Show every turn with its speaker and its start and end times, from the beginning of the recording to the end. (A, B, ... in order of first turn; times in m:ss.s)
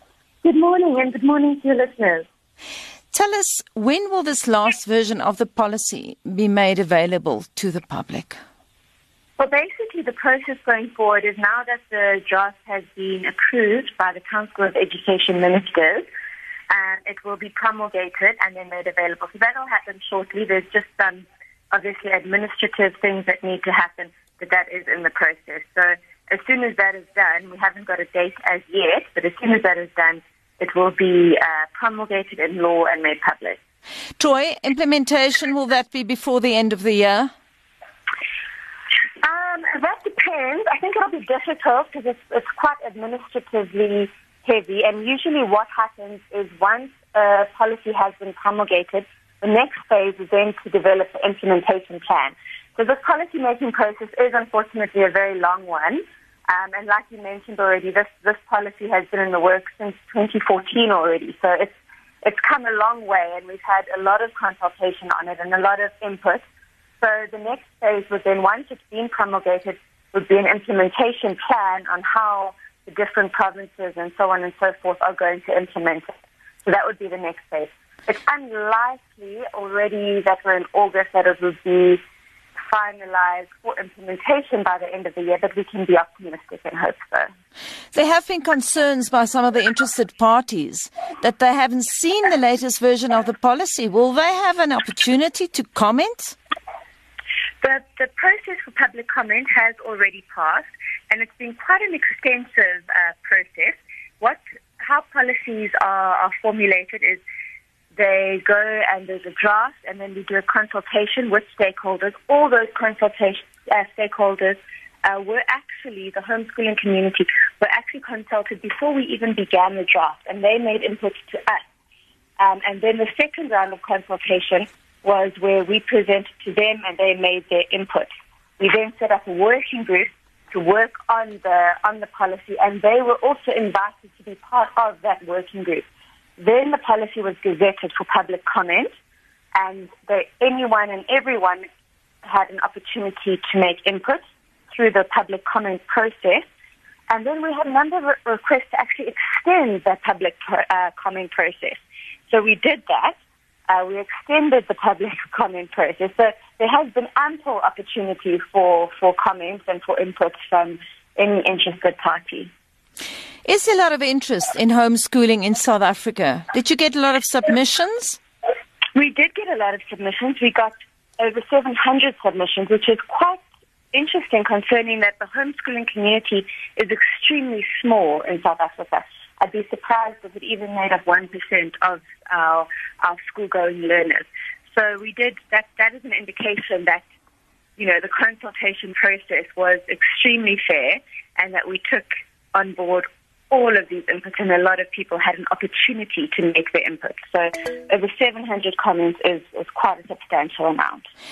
0:00.4-0:02.3 A
0:03.1-0:08.4 B
0:09.4-0:16.1 A
0:16.7-0:33.6 A
0:34.2-0:37.3 B
0:39.2-1:06.4 A
1:07.0-1:16.1 A
1:16.6-1:22.0 A
1:22.7-1:27.3 A
1:27.9-1:36.4 B
1:37.6-1:47.2 A
1:48.0-2:01.6 A
2:02.4-2:15.9 A
2:16.4-2:18.9 A
2:19.6-2:21.7 A
2:22.2-2:26.5 A
2:27.1-2:33.2 A
2:33.7-2:42.5 A
2:43.4-2:48.2 B
2:48.9-3:07.0 A
3:07.8-3:21.1 A